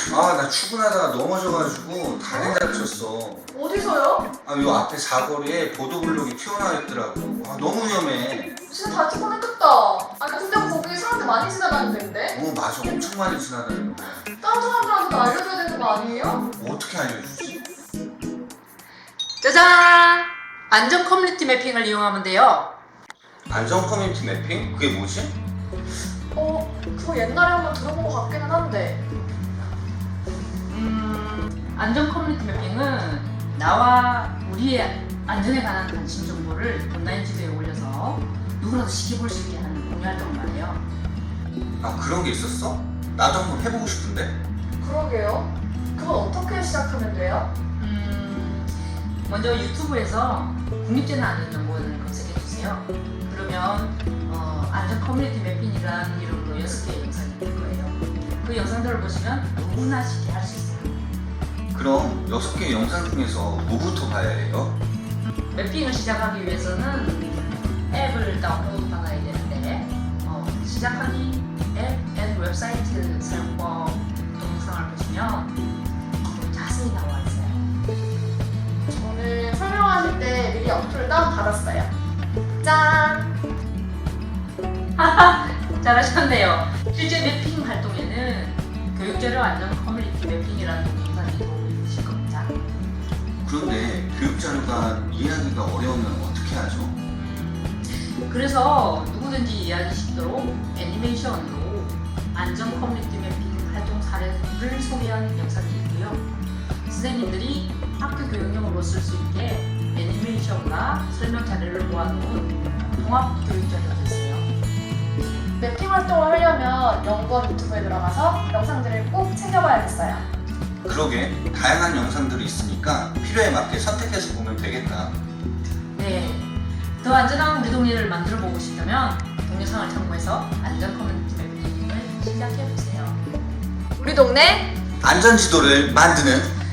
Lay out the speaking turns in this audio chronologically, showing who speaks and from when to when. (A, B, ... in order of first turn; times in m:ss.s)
0:00.1-0:03.5 A
0:02.3-0:02.6 B
0:03.5-0:04.3 B
0:04.4-0:08.6 A
0:08.6-0:12.4 B
0:12.3-0:14.2 A
0:14.4-0:16.5 B
0:16.6-0:17.6 A
0:19.4-0:22.7 C
0:23.5-0:25.4 A
0:26.4-0:29.0 B
0:30.7-0:40.8 C
0:41.8-0:44.4 A
0:44.8-0:47.5 B
0:47.8-0:48.7 C
0:49.3-1:01.2 C
1:01.7-1:04.8 A
1:05.5-1:07.4 C
1:07.9-1:15.6 C
1:16.2-1:17.6 C
1:18.9-1:21.9 B
1:22.6-1:23.3 B
1:25.0-1:32.6 C
1:33.4-1:37.0 A
1:37.1-1:46.3 C
1:46.9-1:54.5 C
1:55.6-2:00.3 B
2:00.8-2:05.2 A
2:06.0-2:13.2 C
2:14.0-2:14.7 B
2:15.0-2:16.5 A